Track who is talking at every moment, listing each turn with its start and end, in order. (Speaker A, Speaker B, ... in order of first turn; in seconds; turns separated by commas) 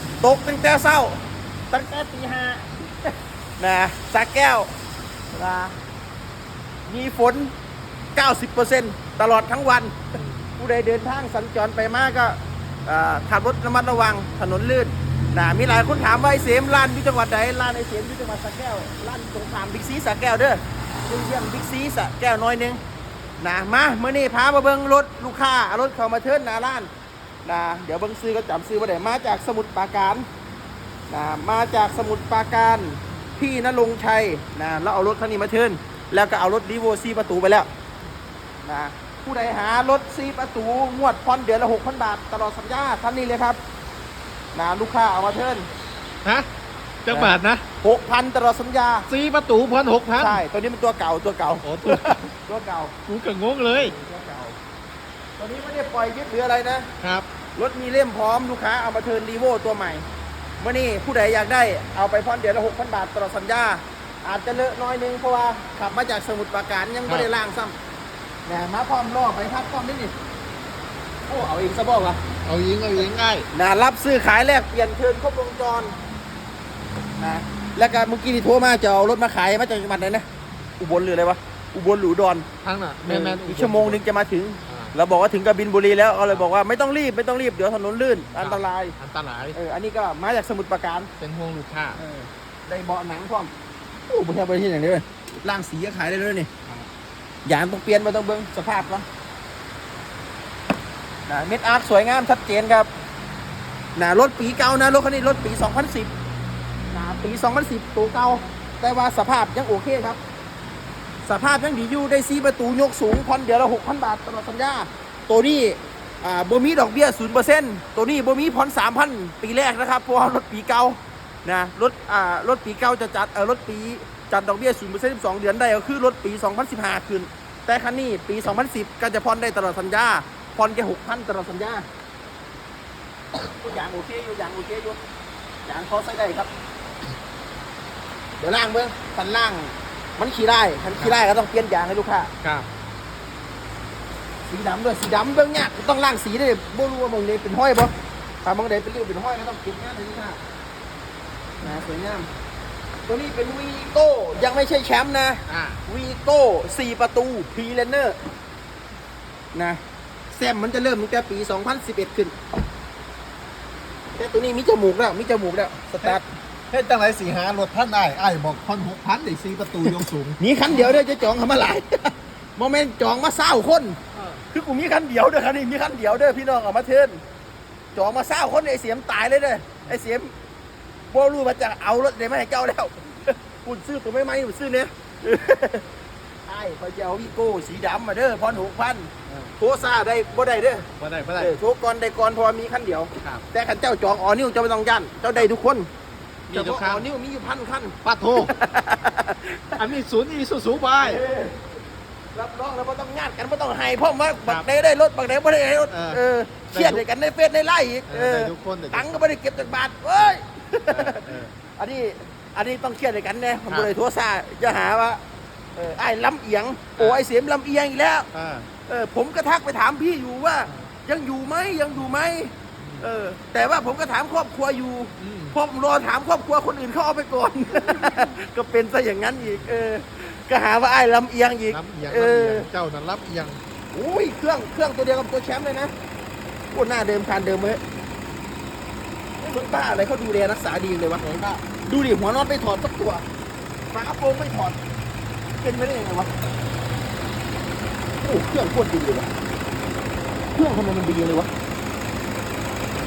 Speaker A: 0.2-2.9, Speaker A: 3.6-4.7, Speaker A: 5.3-5.8, Speaker A: 6.9-7.5, Speaker A: 8.1-22.8, Speaker B: 10.2-10.5, Speaker A: 23.4-26.9, Speaker A: 27.4-30.3, Speaker A: 31.1-37.7, Speaker A: 38.6-43.6, Speaker A: 44.5-45.7, Speaker B: 47.0-47.6, Speaker A: 47.1-49.1, Speaker B: 49.1-50.4, Speaker A: 50.2-52.9, Speaker B: 51.6-52.2, Speaker B: 53.1-53.9, Speaker A: 53.7-54.6, Speaker A: 55.4-56.9, Speaker B: 57.0-57.2, Speaker A: 57.5-60.0, Speaker A: 60.6-67.8, Speaker A: 68.5-70.1, Speaker A: 71.3-72.2, Speaker B: 72.4-73.5, Speaker A: 73.5-76.0, Speaker A: 77.2-80.2, Speaker A: 80.8-82.5, Speaker B: 82.6-84.0, Speaker A: 83.0-88.9, Speaker B: 84.7-84.9, Speaker B: 88.3-89.6, Speaker A: 89.5-91.1, Speaker B: 91.2-92.0, Speaker A: 92.0-93.5, Speaker A: 94.1-96.5, Speaker A: 97.4-99.0, Speaker A: 101.3-102.9, Speaker A: 103.9-106.1, Speaker A: 106.9-110.2, Speaker A: 111.2-131.8, Speaker A: 133.4-135.0, Speaker A: 135.7-136.5, Speaker A: 138.4-142.3, Speaker B: 142.4-142.7, Speaker A: 144.5-150.4, Speaker A: 151.6-152.3, Speaker A: 153.1-158.2, Speaker B: 155.5-155.8, Speaker A: 159.5-159.8, Speaker A: 160.3-162.3, Speaker A: 164.2-166.2, Speaker B: 166.0-170.4, Speaker A: 170.4-174.0, Speaker B: 174.1-174.4, Speaker A: 174.5-177.2, Speaker A: 177.9-180.3, Speaker A: 181.1-185.8, Speaker A: 186.4-195.9, Speaker B: 189.3-189.5, Speaker B: 191.0-191.5, Speaker B: 196.5-197.1, Speaker A: 196.5-199.8, Speaker B: 198.0-198.5, Speaker B: 199.8-201.2, Speaker A: 201.0-201.6, Speaker A: 202.3-211.2, Speaker B: 205.9-206.2, Speaker B: 206.7-207.0, Speaker B: 208.1-209.2, Speaker B: 210.9-211.5, Speaker A: 211.8-215.2, Speaker A: 215.8-218.3, Speaker B: 217.0-217.2, Speaker B: 218.3-218.7, Speaker A: 218.9-232.7, Speaker B: 222.8-223.1, Speaker B: 225.2-225.6, Speaker B: 227.7-228.2, Speaker B: 229.4-229.8, Speaker B: 231.7-233.6, Speaker A: 233.9-235.9, Speaker A: 236.7-237.8, Speaker A: 239.4-241.2, Speaker B: 241.2-241.6, Speaker A: 241.8-243.2, Speaker A: 243.9-244.8, Speaker A: 245.6-246.3, Speaker A: 248.2-249.3, Speaker A: 250.5-251.5